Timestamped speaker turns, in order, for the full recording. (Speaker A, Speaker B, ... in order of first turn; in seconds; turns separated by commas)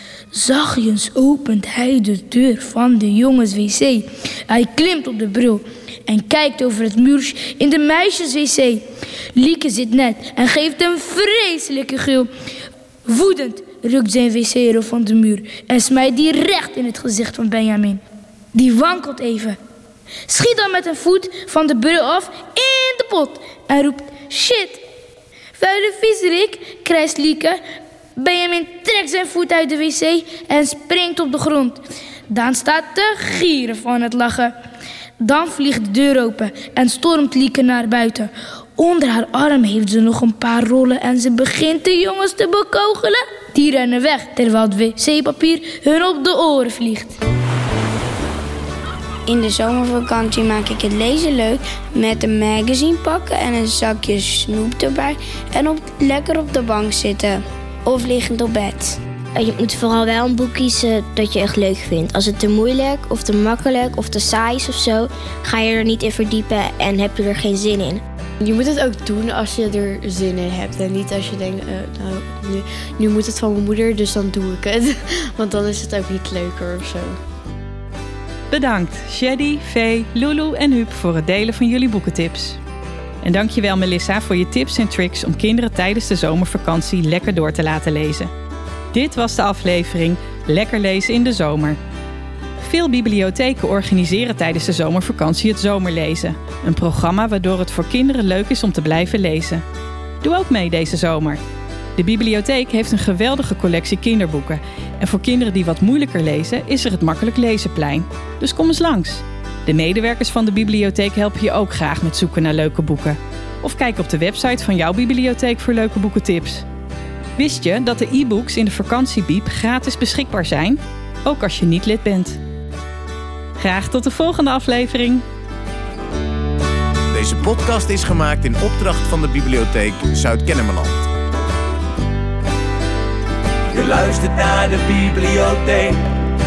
Speaker A: 0.3-8.8, Speaker A: 9.3-12.3, Speaker A: 13.1-18.0, Speaker A: 18.5-19.6, Speaker A: 20.3-24.8, Speaker A: 25.6-27.6, Speaker A: 28.2-34.5, Speaker A: 35.2-47.2, Speaker B: 49.3-59.0, Speaker C: 59.4-68.0, Speaker D: 68.4-77.2, Speaker E: 78.5-82.6, Speaker E: 83.2-88.3, Speaker E: 88.9-91.8, Speaker E: 92.6-99.6, Speaker E: 100.2-101.4, Speaker E: 102.0-116.6, Speaker E: 117.4-122.4, Speaker E: 123.6-125.2, Speaker F: 127.1-131.0, Speaker G: 133.8-135.9